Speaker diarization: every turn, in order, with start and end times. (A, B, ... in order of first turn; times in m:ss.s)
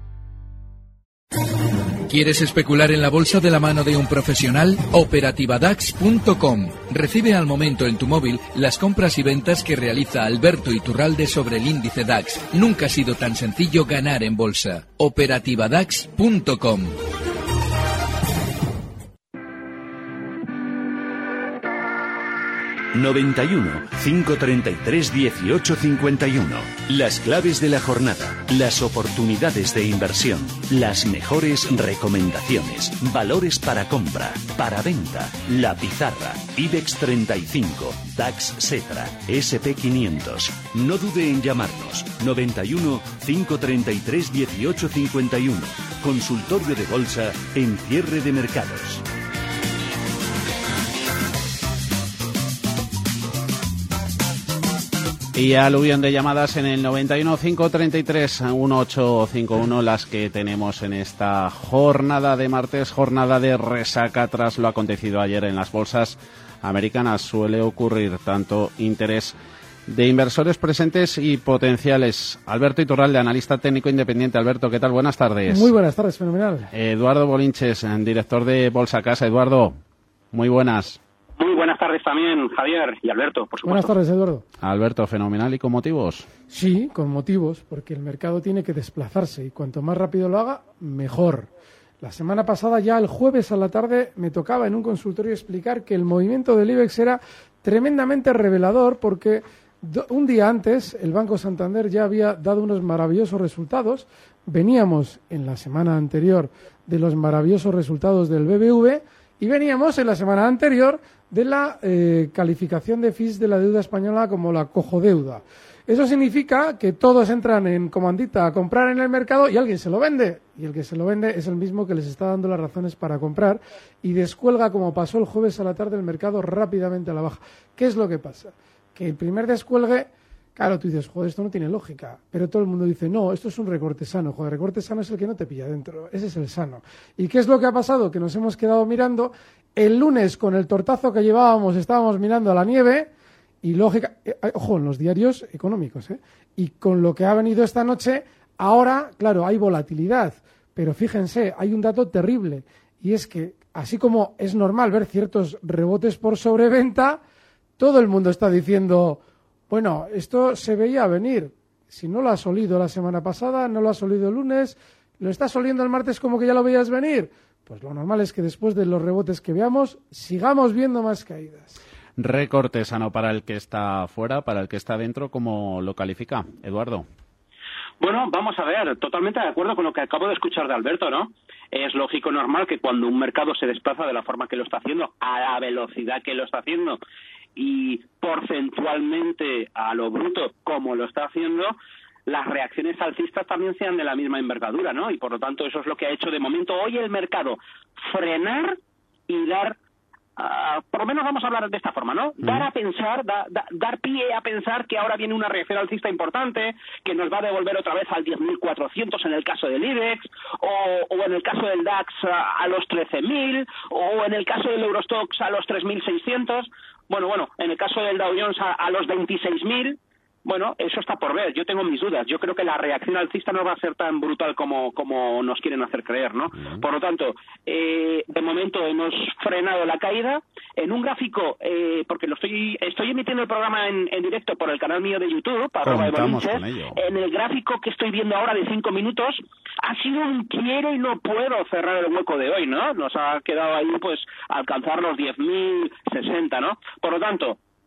0:02.0-0:17.0 A
0:22.9-0:49.0 B
0:55.3-1:15.7 C
1:15.5-1:16.7 D
1:16.7-1:19.8 C
1:20.3-1:21.0 C
1:21.4-1:23.9 E
1:23.6-1:24.4 D
1:24.6-1:26.3 C
1:26.5-2:23.1 D
2:23.6-2:37.2 D
2:37.8-2:51.8 D
2:52.2-2:57.1 C
2:58.0-3:07.0 E
3:07.6-3:11.7 E
3:12.2-3:18.8 E
3:19.3-3:19.8 E
3:20.4-4:07.6 E
3:22.4-3:22.7 C
3:46.6-3:46.8 C
3:55.8-3:57.0 C